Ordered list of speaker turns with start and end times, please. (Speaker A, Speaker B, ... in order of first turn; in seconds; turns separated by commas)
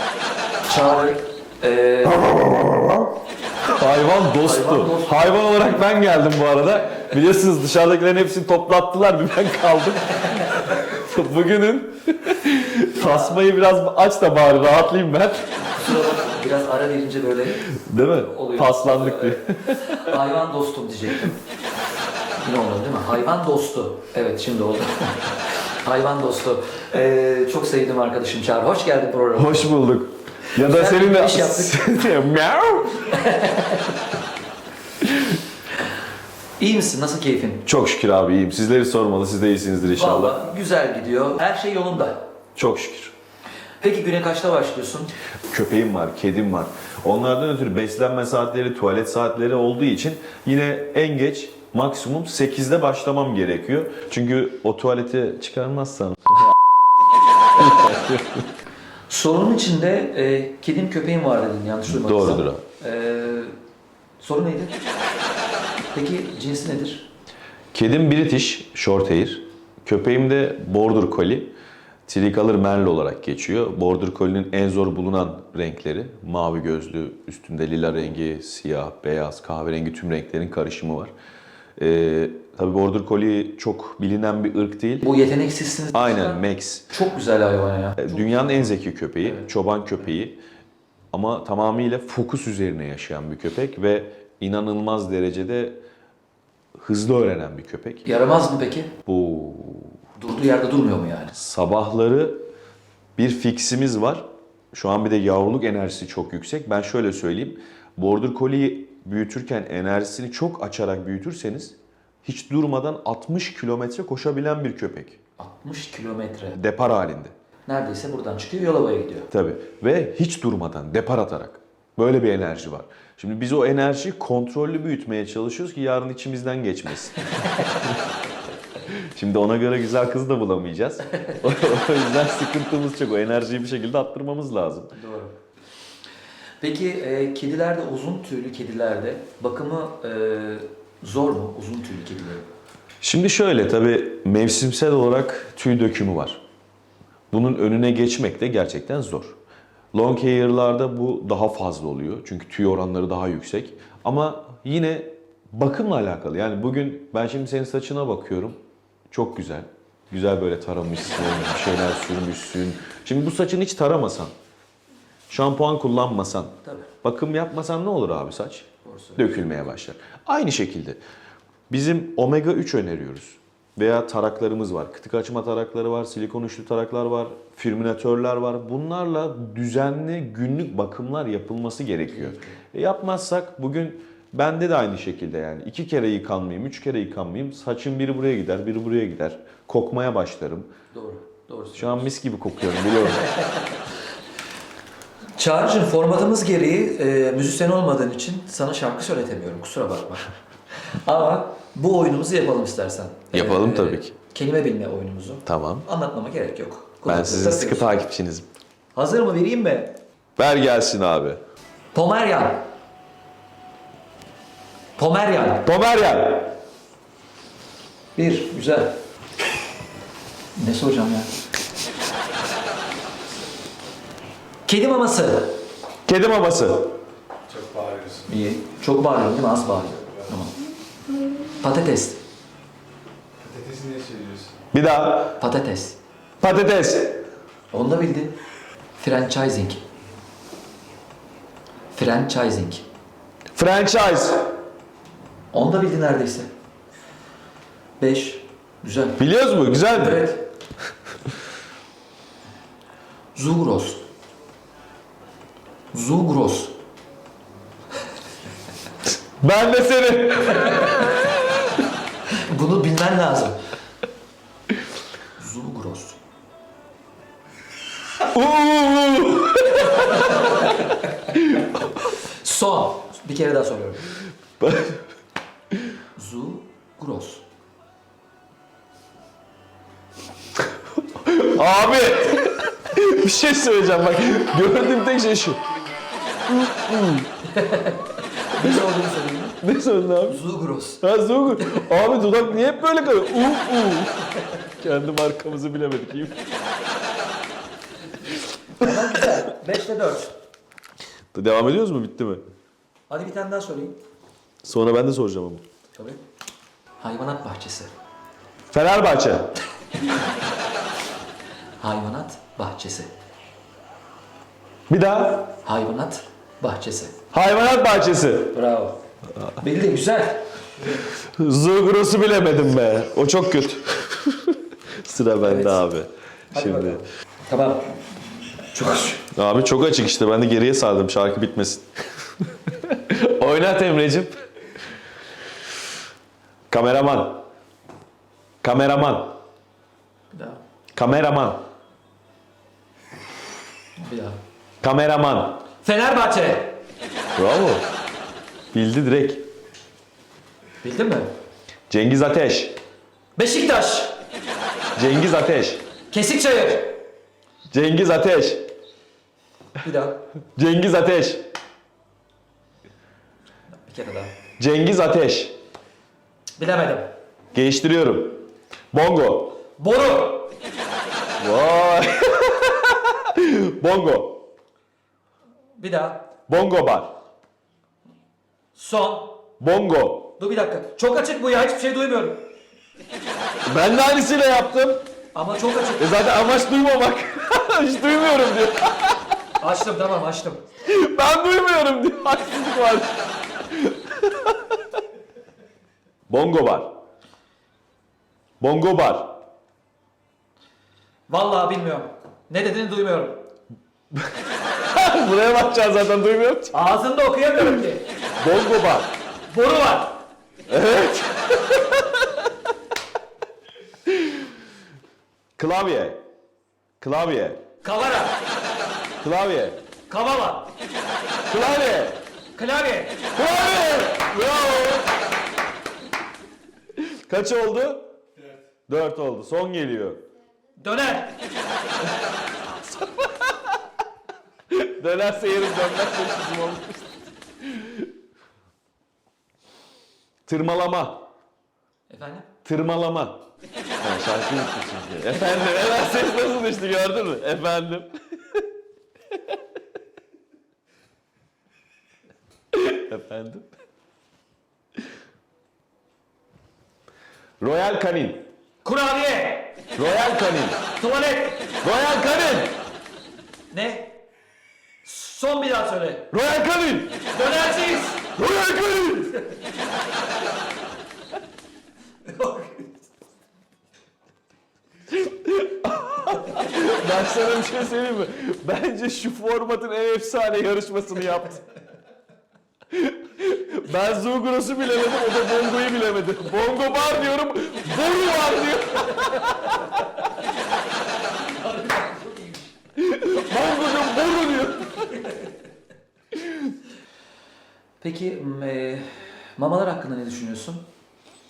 Speaker A: 0.6-2.3, Speaker B: 2.2-3.1, Speaker B: 3.6-15.7, Speaker A: 4.4-5.8, Speaker A: 15.6-21.4, Speaker B: 17.6-20.0, Speaker A: 22.4-29.7, Speaker B: 29.3-33.2, Speaker A: 30.5-31.9, Speaker A: 33.1-33.9, Speaker A: 36.6-37.6, Speaker B: 37.6-40.4, Speaker A: 39.9-42.2, Speaker B: 42.5-43.1, Speaker A: 43.8-45.1, Speaker B: 45.5-56.5, Speaker B: 57.5-58.5, Speaker A: 59.1-63.5, Speaker B: 61.9-62.6, Speaker A: 64.2-64.8, Speaker A: 65.9-67.1, Speaker B: 67.7-71.5, Speaker B: 72.1-81.1, Speaker B: 81.8-85.1, Speaker A: 85.0-88.7, Speaker B: 85.9-86.9, Speaker B: 88.0-90.4, Speaker B: 91.1-95.8, Speaker B: 96.8-98.1, Speaker A: 98.0-98.9, Speaker B: 99.1-100.0, Speaker A: 100.2-101.3, Speaker B: 101.3-102.5, Speaker B: 103.2-115.2, Speaker A: 115.4-116.6, Speaker B: 116.5-117.3, Speaker A: 117.7-119.3, Speaker B: 119.3-128.0, Speaker A: 127.4-127.8, Speaker B: 128.8-134.9, Speaker A: 134.9-135.4, Speaker A: 136.6-142.5, Speaker B: 143.0-146.4, Speaker B: 147.3-149.4, Speaker B: 149.9-164.3, Speaker B: 165.3-171.0, Speaker A: 166.6-166.9, Speaker A: 168.8-169.6, Speaker B: 171.7-190.7, Speaker A: 182.1-182.6, Speaker A: 190.9-192.1, Speaker B: 191.7-193.3, Speaker A: 193.2-193.7, Speaker A: 195.4-207.9, Speaker B: 203.3-204.1, Speaker B: 205.4-205.9, Speaker B: 207.0-208.5, Speaker A: 208.9-210.0, Speaker B: 210.4-211.4, Speaker A: 211.9-212.7, Speaker A: 215.0-215.7, Speaker B: 215.6-216.6, Speaker A: 218.2-219.0, Speaker A: 220.5-221.3, Speaker A: 224.7-225.6, Speaker B: 226.1-226.9, Speaker C: 227.5-228.3, Speaker A: 228.3-230.6, Speaker A: 231.6-232.2, Speaker C: 233.4-234.5, Speaker B: 234.7-235.4, Speaker A: 235.4-236.0, Speaker B: 236.4-237.2, Speaker A: 237.7-238.3, Speaker A: 239.0-239.8, Speaker A: 241.9-242.8, Speaker B: 243.5-244.5, Speaker A: 245.5-246.5, Speaker A: 248.0-249.2, Speaker B: 249.2-250.4, Speaker A: 249.8-250.4, Speaker A: 253.3-254.0, Speaker A: 255.9-256.7, Speaker B: 259.4-261.3, Speaker A: 262.3-263.6, Speaker A: 265.4-266.2, Speaker B: 268.2-270.5, Speaker B: 271.4-271.8, Speaker A: 272.2-274.1, Speaker B: 274.6-275.0, Speaker A: 276.1-277.4, Speaker B: 281.1-285.6, Speaker B: 286.4-287.3, Speaker A: 287.6-289.6, Speaker B: 289.6-290.4, Speaker A: 290.3-291.0, Speaker B: 291.0-296.5, Speaker A: 298.8-300.3, Speaker B: 301.3-302.4, Speaker A: 303.1-304.0, Speaker B: 304.6-305.6, Speaker A: 307.0-307.9, Speaker B: 308.7-309.6, Speaker A: 311.8-313.1, Speaker B: 314.9-315.5, Speaker A: 315.6-317.1, Speaker B: 317.3-318.6, Speaker A: 318.5-319.0, Speaker A: 319.6-320.5, Speaker B: 321.1-327.0, Speaker A: 325.4-325.9, Speaker A: 326.5-328.0, Speaker A: 328.7-329.2, Speaker B: 329.3-334.4, Speaker B: 336.7-337.4, Speaker B: 338.6-339.4, Speaker A: 340.3-340.6, Speaker B: 340.9-341.6, Speaker A: 344.0-344.4, Speaker B: 344.8-345.6, Speaker A: 345.8-346.8, Speaker B: 347.4-347.9, Speaker B: 348.7-349.5, Speaker A: 350.8-351.3, Speaker B: 351.9-352.8, Speaker A: 353.4-354.2, Speaker B: 354.9-355.9, Speaker A: 356.1-357.0, Speaker B: 357.7-358.7, Speaker A: 359.8-360.2, Speaker B: 360.5-361.5, Speaker A: 363.8-364.3, Speaker B: 364.6-365.6, Speaker A: 366.6-367.1, Speaker B: 367.5-369.6, Speaker A: 369.8-370.5, Speaker B: 371.4-374.5, Speaker A: 375.8-376.3, Speaker B: 376.5-377.2, Speaker A: 378.7-379.4, Speaker B: 379.6-380.4, Speaker A: 380.4-382.4, Speaker B: 383.6-385.0, Speaker A: 385.3-386.1, Speaker B: 386.0-389.3, Speaker A: 389.6-390.7, Speaker B: 390.8-394.8, Speaker B: 396.3-397.0, Speaker B: 398.6-399.4, Speaker A: 401.3-403.4, Speaker B: 404.1-406.8, Speaker A: 406.7-408.1, Speaker B: 408.4-409.1, Speaker A: 409.5-410.2, Speaker B: 410.7-412.5, Speaker B: 414.1-414.5, Speaker B: 415.6-416.2, Speaker B: 417.0-417.6, Speaker A: 417.8-418.4, Speaker B: 419.2-419.8, Speaker A: 420.1-420.7, Speaker B: 421.5-422.2, Speaker A: 422.5-423.2, Speaker B: 423.4-425.1, Speaker B: 426.9-428.1, Speaker B: 428.9-430.2, Speaker A: 430.8-431.4, Speaker B: 432.6-433.7, Speaker B: 434.7-438.1, Speaker B: 440.5-441.3, Speaker A: 442.1-442.5, Speaker B: 442.6-443.4, Speaker B: 444.0-448.6, Speaker B: 452.7-453.7, Speaker B: 457.6-458.5, Speaker A: 458.8-459.8, Speaker B: 459.9-460.8, Speaker A: 461.0-461.8, Speaker B: 461.8-462.8, Speaker A: 463.7-464.2, Speaker A: 465.0-466.3, Speaker B: 466.3-467.2, Speaker A: 467.3-468.3, Speaker B: 468.4-469.4, Speaker A: 472.2-473.1, Speaker B: 475.1-481.6, Speaker B: 482.9-489.8, Speaker A: 491.5-492.7, Speaker B: 492.9-495.2, Speaker A: 498.0-500.8